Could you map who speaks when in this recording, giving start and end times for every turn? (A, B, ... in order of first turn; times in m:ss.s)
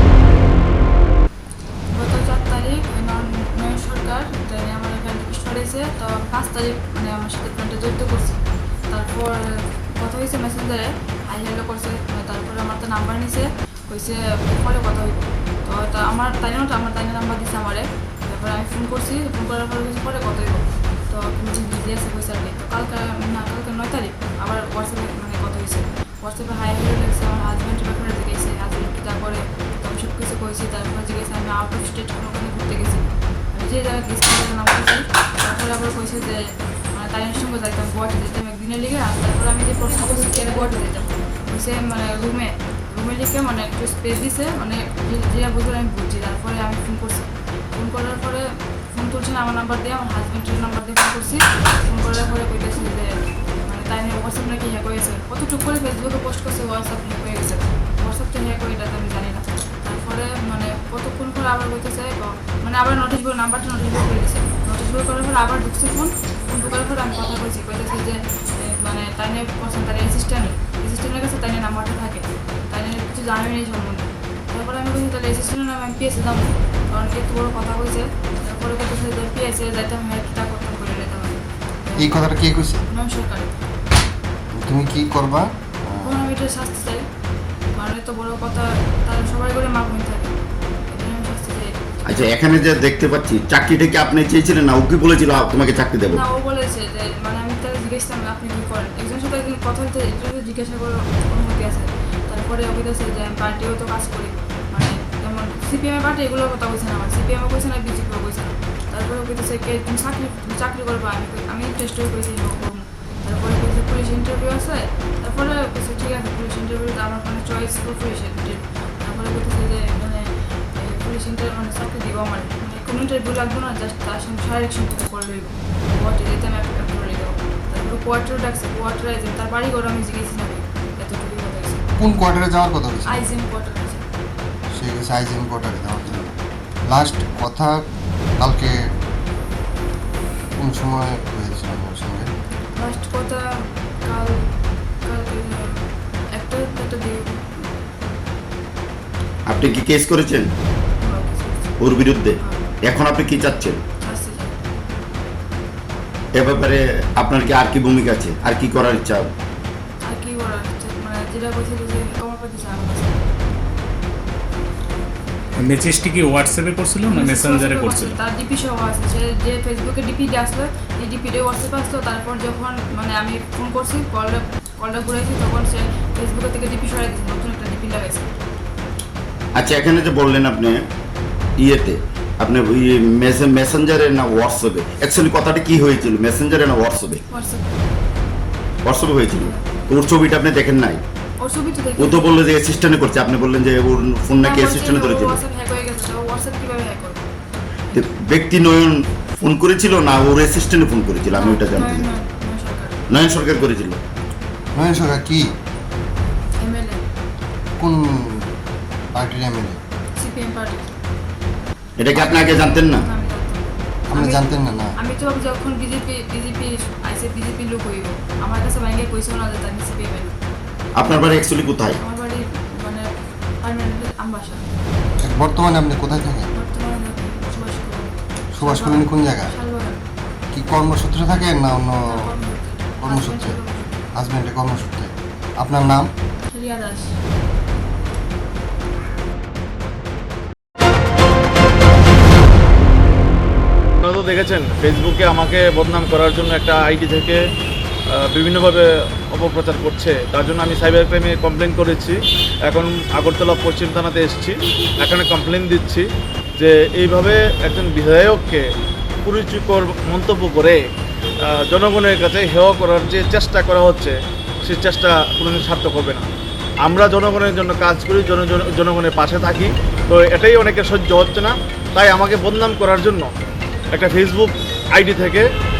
0:01.9-0:36.4 A
0:36.9-1:22.2 A
1:22.0-1:22.8 B
1:22.9-1:23.5 A
1:24.6-1:26.3 B
1:26.0-1:27.1 A
1:27.8-1:30.3 A
1:30.9-1:31.8 A
1:32.1-1:36.2 C
1:36.1-2:11.9 A
2:12.0-2:13.2 B
2:13.0-2:14.0 A
2:14.7-2:16.4 B
2:16.9-2:17.8 B
2:18.4-2:18.9 B
2:20.6-2:22.3 B
2:22.8-2:24.5 A
2:25.0-2:27.7 A
2:29.5-2:30.5 C
2:31.0-2:31.7 A
2:31.8-2:33.8 C
2:32.4-2:32.6 A
2:34.0-2:34.5 A
2:36.3-2:39.3 C
2:40.0-2:43.2 A
2:45.6-2:48.2 D
2:47.1-2:58.3 A
2:59.5-3:00.8 C
3:01.6-3:07.2 C
3:07.3-3:07.9 A
3:08.8-3:11.0 C
3:09.4-3:09.7 A
3:11.4-3:12.4 A
3:12.0-3:15.4 C
3:14.4-3:17.2 A
3:17.9-3:22.1 C
3:21.3-3:23.0 A
3:23.1-3:24.0 C
3:24.7-3:25.5 B
3:26.6-3:27.0 A
3:27.8-3:28.5 B
3:29.1-3:29.8 B
3:30.2-3:30.9 A
3:32.0-3:33.0 C
3:32.2-3:32.5 B
3:32.4-3:40.4 A
3:34.1-3:35.0 B
3:41.0-3:42.0 C
3:42.0-3:43.1 A
3:43.6-3:44.6 A
3:45.2-3:46.5 B
3:46.5-3:50.0 A
3:48.5-3:49.5 B
3:50.5-3:52.3 B
3:52.0-3:54.0 A
3:53.0-3:53.6 B
3:54.2-3:56.1 B
3:56.5-3:57.2 A
4:04.0-4:07.4 E
4:08.1-4:16.1 E
4:16.6-4:18.6 E
4:19.2-4:20.8 E
4:21.5-4:26.2 E
4:26.8-4:33.3 E
4:33.9-4:35.5 E